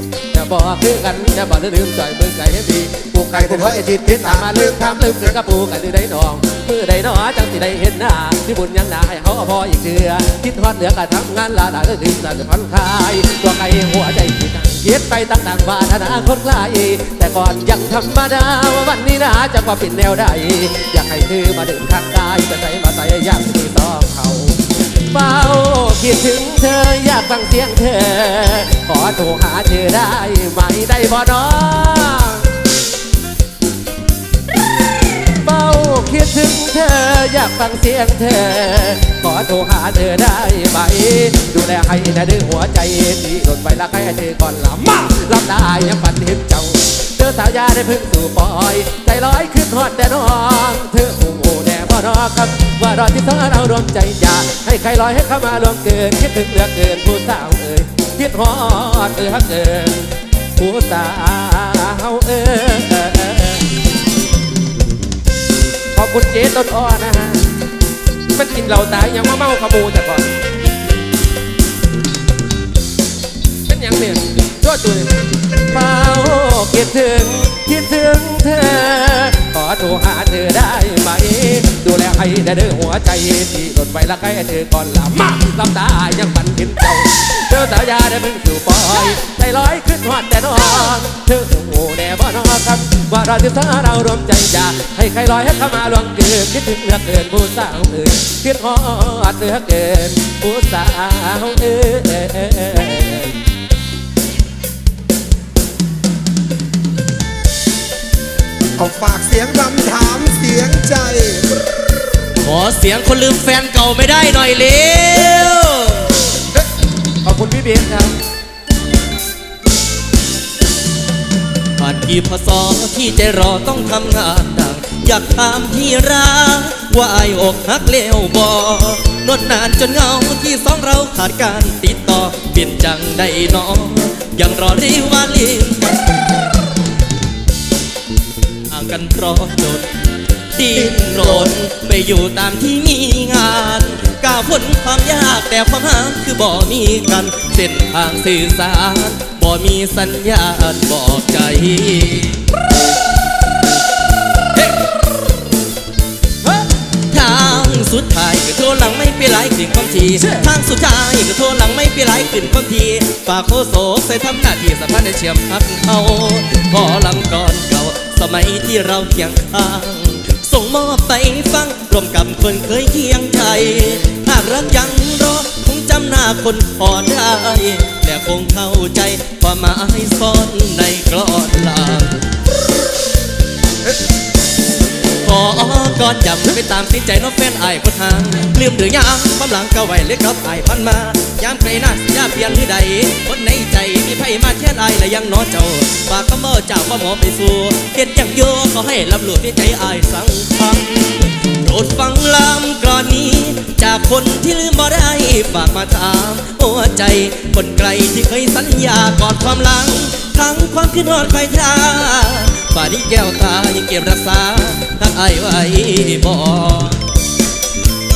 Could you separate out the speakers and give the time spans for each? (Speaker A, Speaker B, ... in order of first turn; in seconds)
Speaker A: 0.3-32.5, 35.3-63.7, 65.9-67.5, 68.3-70.3, 73.7-103.3, 117.2-118.1
Speaker B: 3.3-5.4, 108.8-111.5, 140.8-141.5
Speaker C: 112.4-116.1, 121.8-136.1, 138.7-139.9, 140.6-152.4, 157.1-182.2, 185.2-217.0